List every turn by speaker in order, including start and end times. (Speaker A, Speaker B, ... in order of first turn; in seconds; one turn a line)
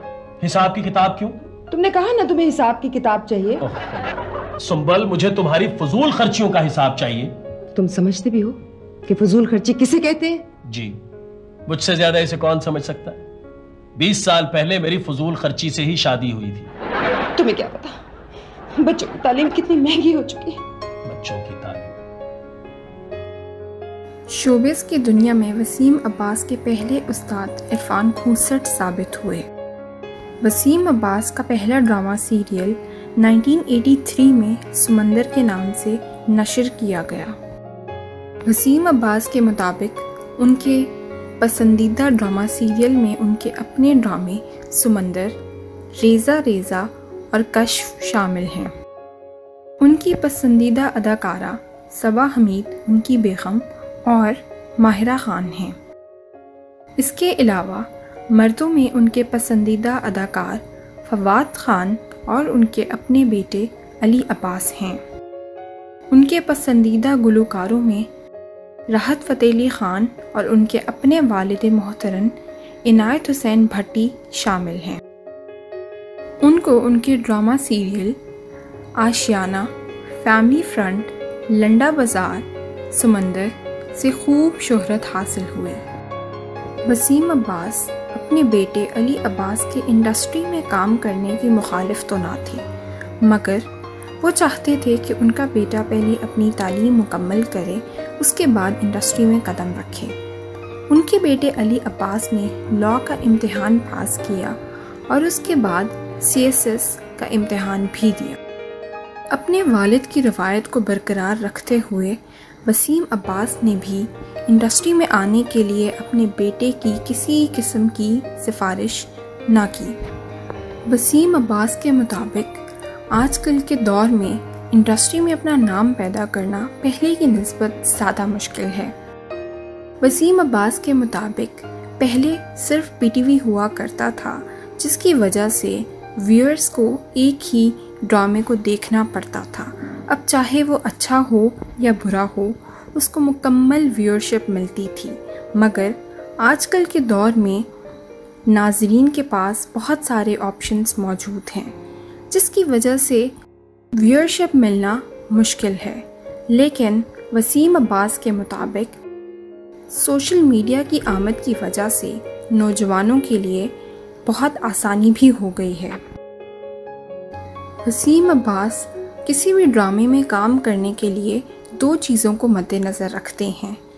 Speaker A: 0.4-1.4
Speaker B: 1.7-3.6
Speaker A: 3.6-4.0
Speaker A: 4.6-7.3
Speaker B: 7.8-10.4
Speaker A: 10.7-10.9
Speaker A: 11.7-13.2
Speaker A: 14.0-16.7
Speaker B: 17.4-17.9
Speaker B: 18.8-20.6
Speaker A: 21.1-21.9
Speaker C: 24.3-29.5
Speaker C: 30.4-37.4
Speaker C: 38.5-45.4
Speaker C: 46.0-48.7
Speaker C: 49.8-55.8
Speaker C: 57.0-65.0
Speaker C: 66.1-68.1
Speaker C: 68.9-75.0
Speaker C: 76.4-78.2
Speaker C: 79.0-85.8
Speaker C: 86.9-92.6
Speaker C: 93.2-93.7
Speaker C: 94.2-100.1
Speaker C: 100.9-104.6
Speaker C: 105.1-108.4
Speaker C: 109.3-120.0
Speaker C: 120.9-122.6
Speaker C: 123.2-128.9
Speaker C: 130.0-147.7
Speaker C: 148.5-151.7
Speaker C: 152.3-153.3
Speaker C: 154.0-159.0
Speaker C: 159.9-163.7
Speaker C: 164.2-166.0
Speaker C: 167.8-173.8